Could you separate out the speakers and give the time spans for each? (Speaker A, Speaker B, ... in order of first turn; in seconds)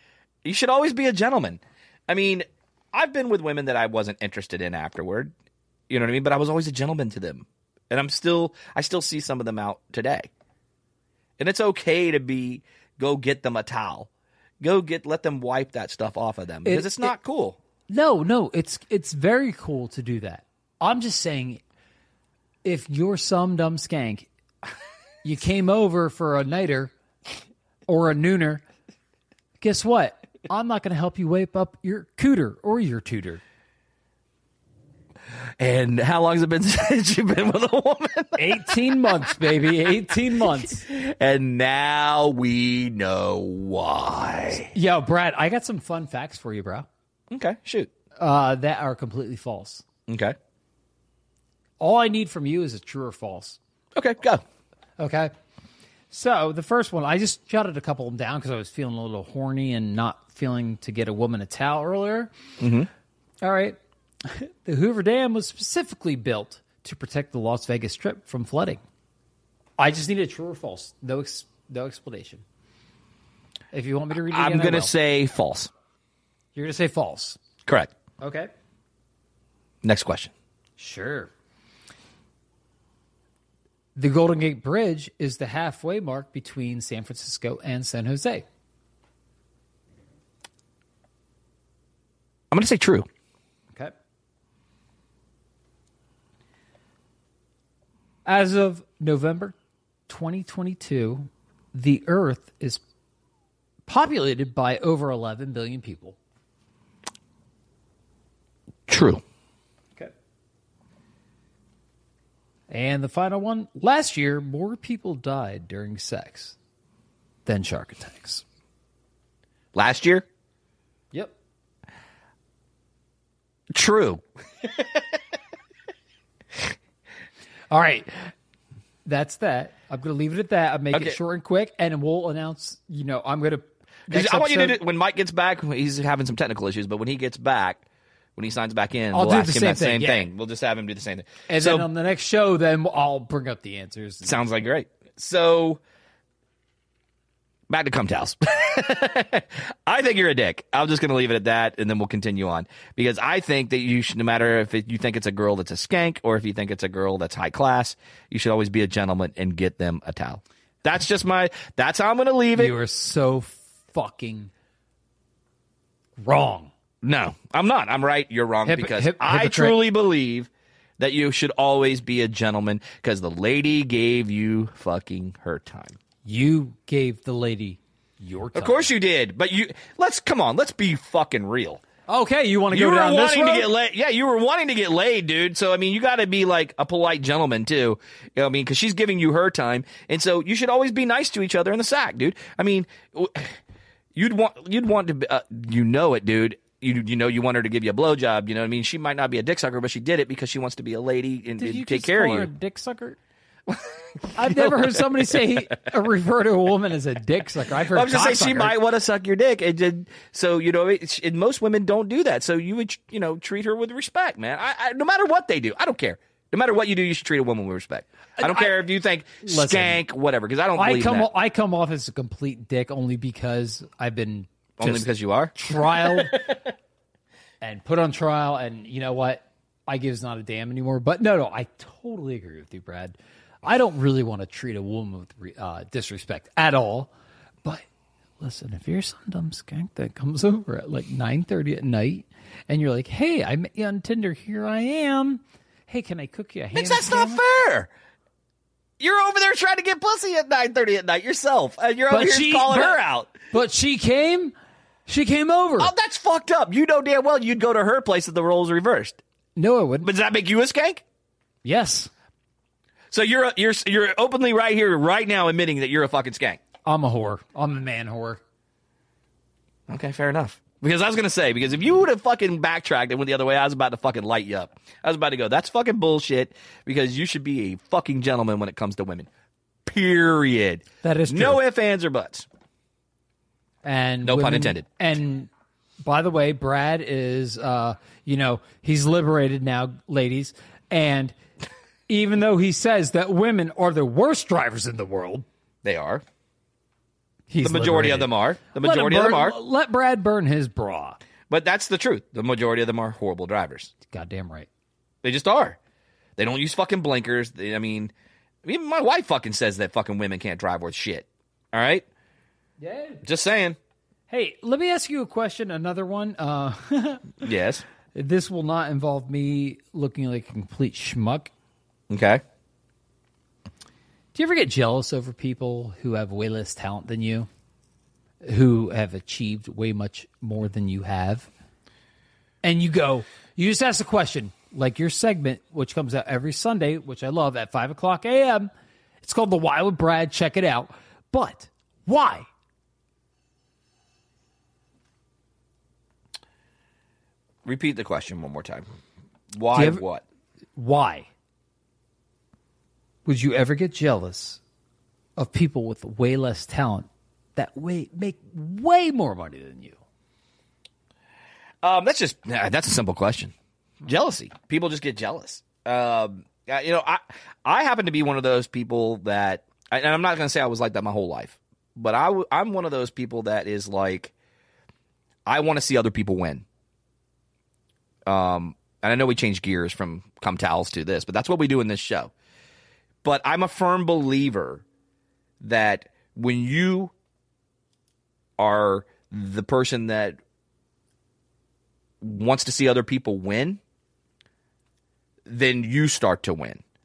Speaker A: 0.4-5.3, 5.9-10.3, 11.4-14.1, 14.6-17.6, 35.6-38.7, 40.8-44.7, 47.3-47.9, 50.1-50.4, 53.9-54.4, 62.6-62.9, 74.3-75.7, 77.6-77.9, 79.8-80.3, 92.5-93.1, 108.9-109.2, 119.7-120.2, 123.7-125.0, 130.9-131.2, 134.1-137.8, 138.3-141.9, 144.2-145.8, 147.7-162.7, 167.0-176.0, 178.5-181.8, 182.7-193.6, 194.1-202.5, 203.7-205.6, 207.9-221.3, 224.8-226.6, 246.7-247.9, 249.0-253.3, 255.8-259.2, 260.0-261.0, 263.1-266.6, 269.9-279.3, 279.8-282.5, 284.2-284.9, 295.8-296.2, 297.6-299.6, 301.5-303.9, 305.2-305.8, 306.4-308.1, 308.6-312.1, 313.2-313.8, 317.4-317.8, 322.1-322.4, 347.6-348.9, 349.5-350.2, 361.8-363.5, 364.0-374.3, 375.4-376.6, 378.2-382.3, 383.2-384.8, 385.6-387.1, 388.6-390.4, 392.2-393.8, 395.4-396.8
Speaker B: 16.6-17.1, 17.9-21.6, 22.6-24.3, 25.2-26.9, 27.9-28.6, 29.6-33.4, 38.4-40.9, 44.7-46.9, 48.2-49.8, 51.8-53.6, 55.0-55.3, 56.1-62.3, 63.4-68.8, 69.8-72.4, 73.7-74.9, 76.5-77.4, 78.2-78.5, 80.8-81.3, 84.0-88.5, 98.2-99.5, 100.1-102.8, 103.9-106.2, 112.7-116.5, 117.5-118.4, 127.7-128.3, 129.1-134.8, 139.1-140.3, 141.5-144.4, 162.5-164.5, 166.2-166.7, 168.7-169.8, 176.2-178.9, 182.1-183.7, 201.6-203.2, 204.3-208.8, 218.4-218.8, 219.4-220.0, 220.8-226.4, 227.6-237.1, 238.4-247.4, 252.1-254.5, 255.1-255.9, 259.6-260.1, 261.6-262.1, 266.8-268.4, 281.0-281.6, 283.8-285.5, 286.0-291.3, 292.1-295.4, 297.5-301.2, 304.0-304.7, 312.8-313.2, 314.3-317.4, 318.1-321.5, 324.3-327.5, 328.4-331.5, 332.6-338.7, 339.2-342.5, 349.7-350.0, 350.8-351.3, 353.2-354.6, 355.4-360.0